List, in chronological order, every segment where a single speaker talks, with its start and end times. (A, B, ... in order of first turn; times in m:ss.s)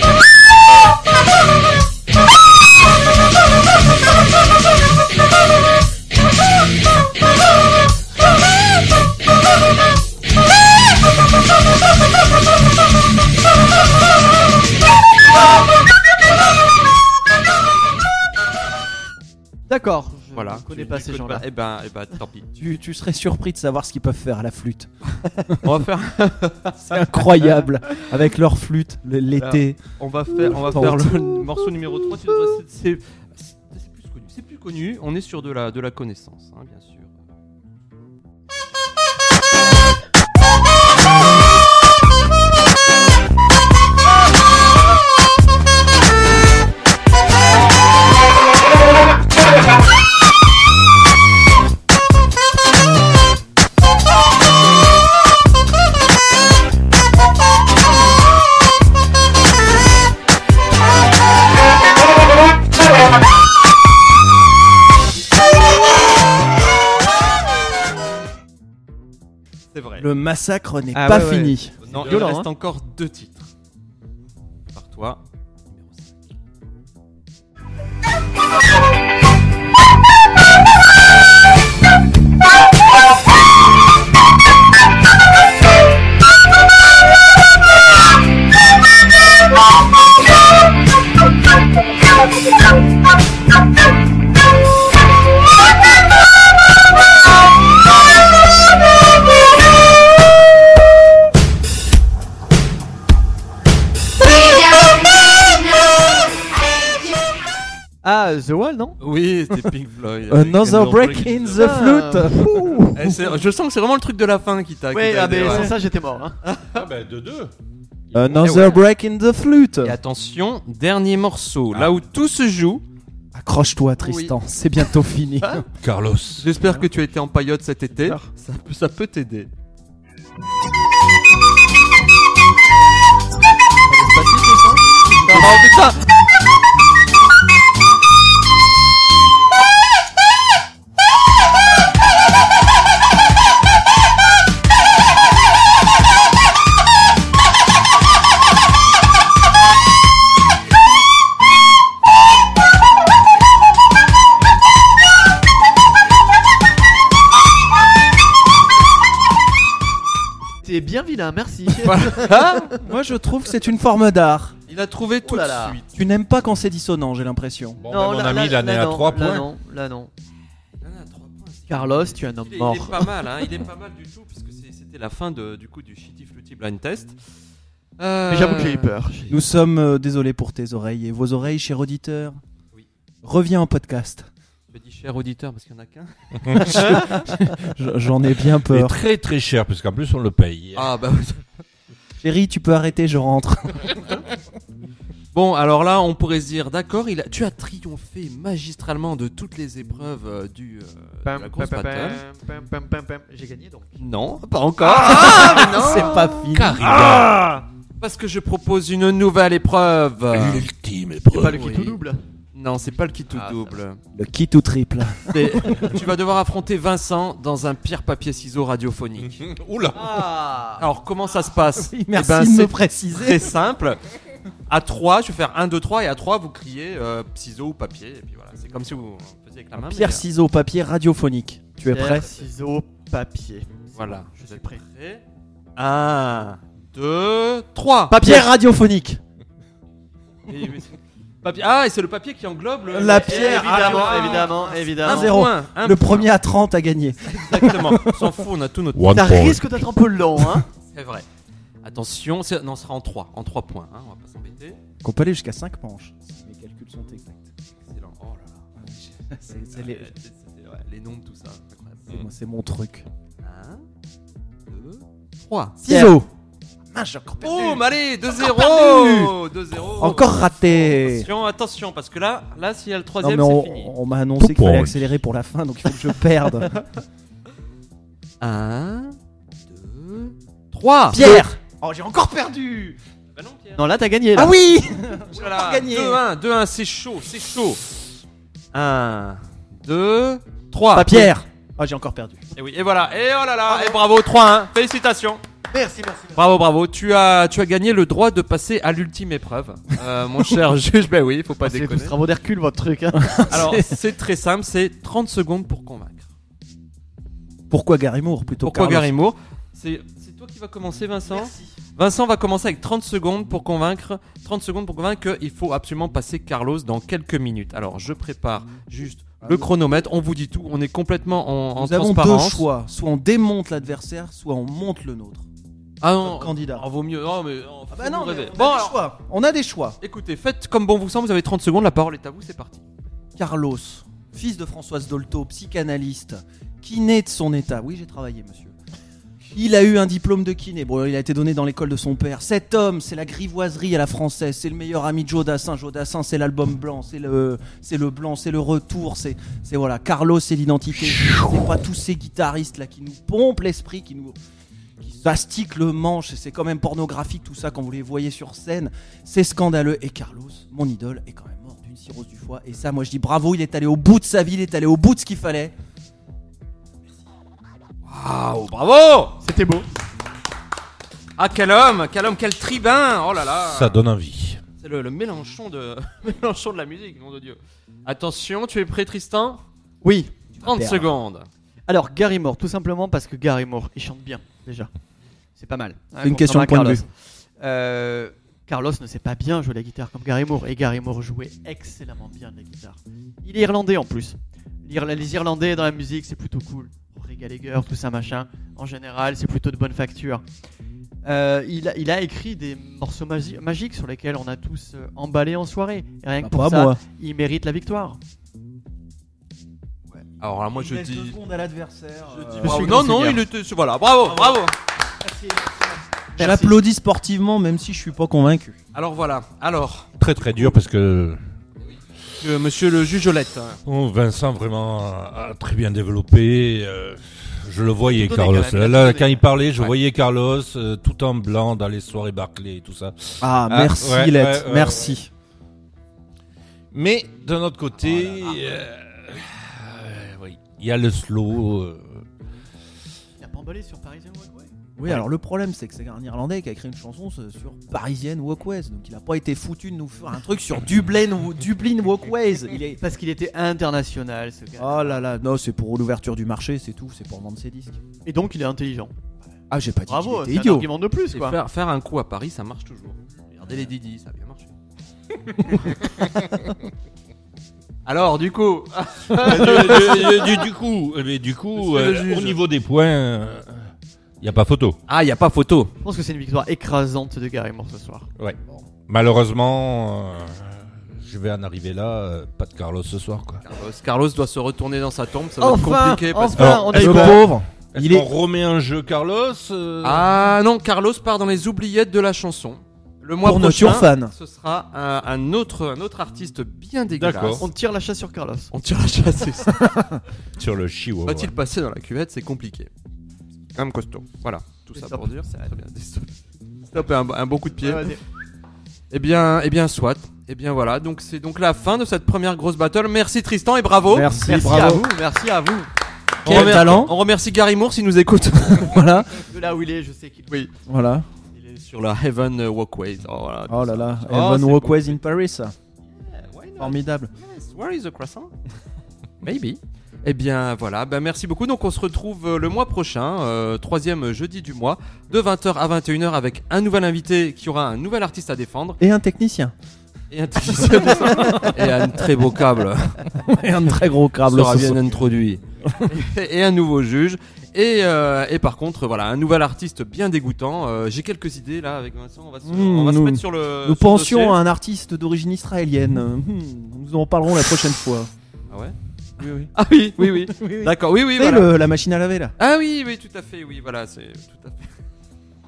0:19.7-0:21.4 A
0:20.3-0:22.5 B
0:22.6-0:25.6 C
0:25.6-0:28.1 B
0:26.8-0:29.8 C
0:29.4-0:37.1 B
0:30.4-0:31.2 C
1:09.7-1:10.1 B
1:10.0-1:11.8 C
1:10.9-1:12.5 A
1:11.8-1:13.5 B
1:14.7-1:16.1 B
1:48.0-1:49.0 A
1:49.0-1:51.9 B
1:50.3-1:53.1 C
1:51.6-1:52.9 A
1:52.9-1:55.7 B
1:54.9-1:56.4 A
1:56.4-1:56.8 B
1:56.7-1:57.5 D
1:58.1-2:00.0 C
1:58.4-1:58.8 B
1:59.8-2:02.8 B
2:03.3-2:05.6 C
2:04.0-2:04.3 B
2:05.8-2:06.5 D
2:06.4-2:09.5 B
2:13.9-2:15.5 A
2:15.1-2:16.0 B
2:40.6-2:42.8 A
2:41.8-2:42.8 B
2:42.8-2:44.6 C
2:44.7-2:45.9 B
2:45.2-2:45.8 A
2:45.9-2:47.8 C
2:47.8-2:49.5 D
2:47.9-2:50.1 A
2:50.8-2:57.2 B
2:51.7-2:53.1 A
2:58.0-2:59.0 B
2:58.3-2:59.4 A
2:59.3-3:02.4 C
3:03.2-3:04.3 C
3:04.7-3:07.2 B
3:06.5-3:09.0 C
3:08.7-3:10.9 D
3:10.8-3:11.5 B
3:12.2-3:14.0 C
3:15.3-3:22.2 B
3:21.2-3:23.9 A
3:24.0-3:27.4 B
3:25.0-3:27.0 C
3:25.1-3:25.5 A
3:26.5-3:27.6 D
3:28.0-3:30.7 B
3:30.3-3:31.6 D
3:31.3-3:32.2 A
3:31.4-3:32.0 B
3:32.5-3:34.0 B
3:33.3-3:33.8 A
3:34.1-3:36.0 C
3:35.3-3:39.4 B
3:39.2-3:40.2 D
3:39.9-3:40.9 A
3:40.8-3:44.0 B
3:41.8-3:43.5 C
3:44.7-3:50.2 B
3:49.8-3:52.3 C
3:51.8-3:54.8 A
3:54.0-3:55.2 B
3:55.8-3:58.4 B
3:58.1-3:59.2 C
3:58.2-3:58.5 A
4:00.5-4:06.3 B
4:02.9-4:04.3 C
4:03.2-4:05.3 A
4:05.0-4:08.3 C
4:07.2-4:09.2 B
4:08.9-4:09.7 D
4:09.1-4:10.7 A
4:10.9-4:11.3 B
4:11.8-4:14.8 B
4:15.0-4:17.5 C
4:17.9-4:18.6 B
4:18.8-4:20.1 C
4:19.7-4:22.3 B
4:22.1-4:23.1 C
4:23.4-4:23.8 B
4:24.7-4:25.8 B
4:25.8-4:26.3 C
4:26.9-4:31.3 C
4:27.4-4:33.9 B
4:33.2-4:36.7 C
4:34.4-4:35.1 D
4:38.4-4:41.3 B
4:41.1-4:43.0 C
4:43.4-4:43.9 B
4:43.8-4:44.5 A
4:44.4-4:46.2 C
4:45.3-4:47.9 B
4:48.7-4:51.3 B
4:50.9-4:52.4 C
4:52.6-4:55.4 B
4:53.7-4:53.9 A
4:55.7-4:56.4 A
4:56.4-5:02.2 B
5:01.6-5:03.5 A
5:03.1-5:04.0 C
5:03.5-5:06.3 B
5:07.7-5:09.1 C
5:08.6-5:22.7 B
5:11.3-5:11.7 A
5:19.4-5:19.7 C
5:21.8-5:25.5 C
5:26.0-5:29.0 B
5:26.2-5:26.9 C
5:27.9-5:30.0 C
5:30.0-5:32.8 B
5:33.4-5:38.8 C
5:39.5-5:54.4 C
5:55.0-6:05.7 C
6:08.1-6:09.4 B
6:09.4-6:09.9 A
6:11.4-6:14.0 B
6:13.7-6:14.6 D
6:14.8-6:19.6 B
6:20.0-6:20.3 A
6:20.5-6:21.1 C
6:20.6-6:21.5 B
6:21.9-6:24.9 A
6:25.6-6:40.4 A
6:26.2-6:27.0 C
6:41.2-6:48.2 A
6:46.4-6:47.0 C
6:50.4-6:51.4 B
6:50.7-6:53.1 C
6:52.3-6:54.8 B
6:52.6-6:53.4 A
6:54.4-6:54.6 C
6:55.4-6:56.8 A
6:56.4-6:58.8 C
6:58.9-7:00.7 B
7:00.2-7:01.4 D
7:01.9-7:03.8 B
7:03.9-7:15.2 D
7:08.1-7:09.4 A
7:13.4-7:15.3 C
7:16.9-7:22.2 D
7:18.0-7:18.8 B
7:23.4-7:24.7 A
7:25.0-7:33.0 C
7:33.0-7:35.2 A
7:34.8-7:38.0 C
7:38.2-7:39.1 A
7:39.7-7:40.9 C
7:40.1-7:41.6 A
7:41.3-7:44.7 B
7:45.7-7:46.0 B
7:48.1-7:50.6 B
7:49.3-7:53.9 D
7:51.8-7:52.6 B
7:54.4-7:55.0 D
7:55.1-7:55.9 B
7:56.0-7:58.3 A
7:58.4-8:03.6 D
8:03.6-8:07.3 B
8:05.6-8:07.4 A
8:06.6-8:10.3 D
8:06.9-8:08.3 C
8:10.0-8:17.7 B
8:13.4-8:14.3 C
8:17.1-8:17.7 D
8:17.6-8:18.7 A
8:18.7-8:20.0 B
8:20.6-8:21.6 D
8:21.2-8:22.9 B
8:23.8-8:26.3 B
8:24.9-8:25.7 A
8:26.8-8:28.2 B
8:27.8-8:28.2 A
8:29.1-8:34.3 B
8:34.1-8:35.1 C
8:34.4-8:35.9 A
8:36.4-8:37.1 C
8:36.4-8:39.0 B
8:38.8-8:39.4 C
8:39.4-8:40.7 A
8:40.9-8:41.3 C
8:41.5-8:45.2 B
8:43.7-8:45.8 C
8:46.1-8:48.5 B
8:46.8-8:47.3 C
8:49.4-8:59.0 B
8:59.0-8:59.7 C
9:00.3-9:03.6 B
9:01.2-9:01.9 C
9:03.4-9:05.2 C
9:04.4-9:14.6 B
9:12.6-9:18.3 C
9:18.7-9:19.0 B
9:19.4-9:22.5 C
9:19.8-9:21.7 B
9:22.6-9:24.9 B